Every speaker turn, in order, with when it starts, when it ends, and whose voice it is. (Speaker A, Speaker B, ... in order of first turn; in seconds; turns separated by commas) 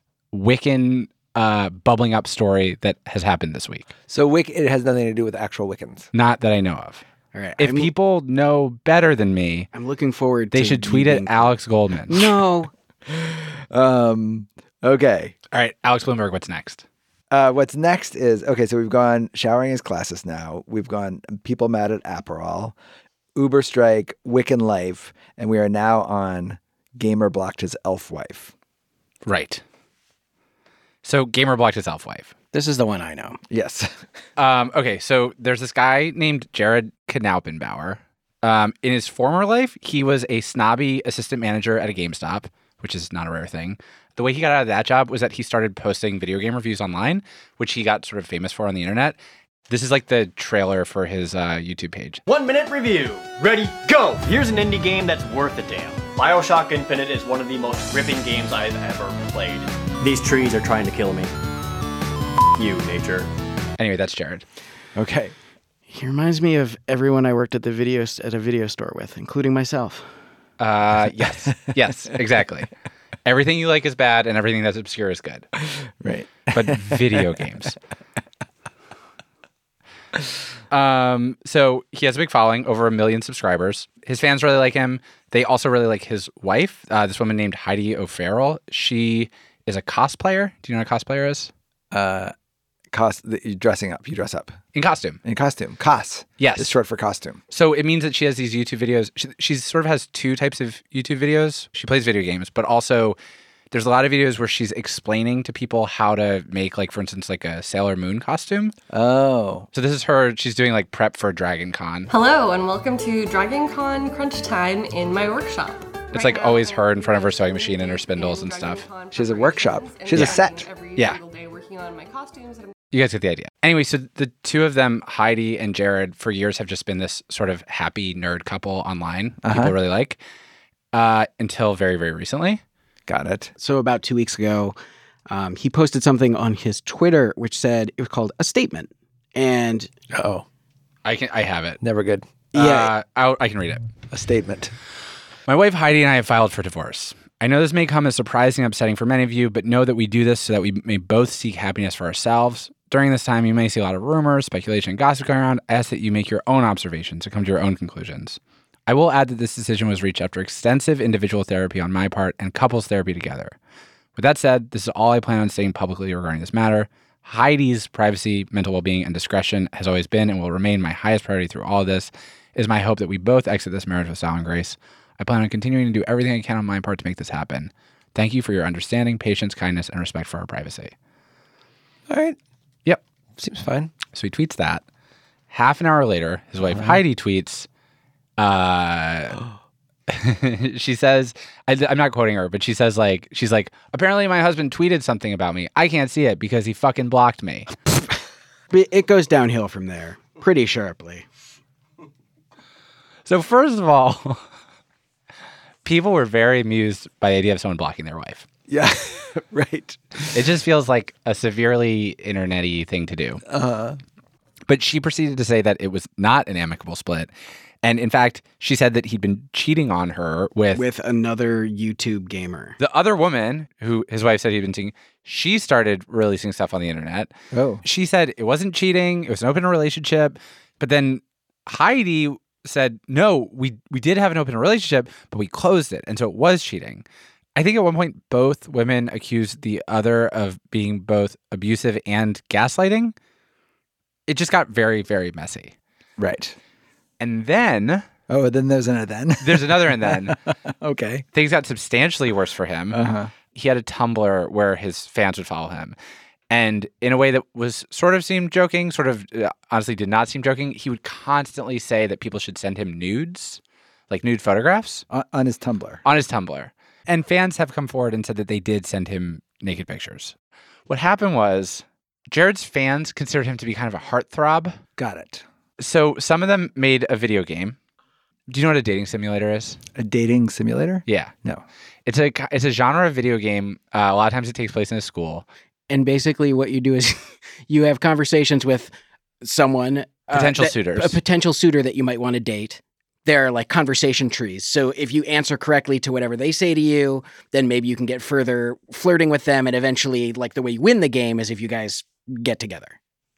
Speaker A: 0.3-3.9, Speaker B: 4.1-6.1, Speaker A: 6.1-7.0, Speaker C: 7.3-7.9, Speaker A: 7.6-9.7, Speaker C: 9.7-11.6, Speaker A: 10.5-12.3, Speaker C: 12.1-12.7, Speaker B: 13.1-15.3, Speaker A: 15.5-16.9, Speaker B: 17.3-22.8, Speaker B: 23.4-28.5, Speaker A: 29.3-29.6, Speaker A: 31.0-32.3, Speaker C: 32.5-33.4, Speaker B: 33.5-33.9, Speaker A: 34.4-49.2, Speaker A: 49.7-52.2, Speaker D: 52.3-61.3, Speaker D: 62.6-63.3, Speaker A: 63.8-64.5, Speaker B: 65.0-65.3, Speaker C: 65.9-70.1, Speaker A: 70.6-72.7, Speaker A: 73.2-75.5, Speaker B: 76.0-77.3, Speaker A: 76.5-77.8, Speaker A: 80.7-91.5, Speaker B: 91.9-92.3, Speaker B: 92.9-94.5, Speaker A: 94.7-95.2, Speaker B: 95.2-97.4, Speaker A: 96.4-96.7, Speaker A: 97.5-103.2, Speaker A: 103.7-108.7, Speaker B: 108.9-109.7, Speaker A: 109.7-112.1, Speaker E: 112.1-122.7, Speaker A: 116.1-118.9, Speaker B: 119.1-120.7, Speaker A: 120.1-120.4, Speaker A: 122.9-130.2, Speaker B: 129.4-129.8, Speaker A: 130.9-132.6, Speaker B: 133.1-133.5, Speaker C: 133.6-134.8, Speaker C: 135.3-139.9, Speaker B: 140.1-140.4, Speaker A: 141.1-141.8, Speaker B: 141.8-142.3, Speaker A: 142.5-143.8, Speaker C: 142.5-142.9, Speaker B: 144.1-144.7, Speaker A: 145.5-163.6, Speaker A: 164.2-180.9, Speaker B: 182.1-182.4, Speaker B: 183.4-183.9, Speaker A: 184.1-184.8, Speaker A: 185.5-187.7, Speaker B: 186.7-187.0, Speaker A: 188.4-189.4, Speaker A: 190.1-197.7, Speaker C: 198.7-201.2, Speaker A: 203.3-204.4, Speaker A: 205.8-208.4, Speaker B: 208.7-210.3, Speaker A: 210.3-213.4, Speaker B: 213.5-214.0, Speaker A: 214.7-217.3, Speaker A: 217.8-220.8, Speaker C: 220.8-222.8, Speaker A: 222.8-227.3, Speaker B: 227.5-227.8, Speaker A: 227.8-237.0, Speaker A: 237.6-243.1, Speaker A: 244.3-245.7, Speaker B: 246.2-246.6, Speaker A: 247.2-248.0, Speaker B: 248.3-251.2, Speaker A: 249.4-250.4, Speaker A: 251.3-253.0, Speaker B: 252.9-253.3, Speaker A: 253.5-256.0, Speaker A: 256.5-265.1, Speaker B: 265.1-266.0, Speaker A: 266.0-270.4, Speaker A: 270.9-274.8, Speaker B: 275.0-275.4, Speaker A: 275.8-277.8, Speaker A: 278.5-279.8, Speaker B: 280.0-281.6, Speaker A: 281.1-281.3, Speaker A: 282.1-285.5, Speaker C: 285.9-288.9, Speaker C: 289.4-303.0, Speaker A: 290.3-291.2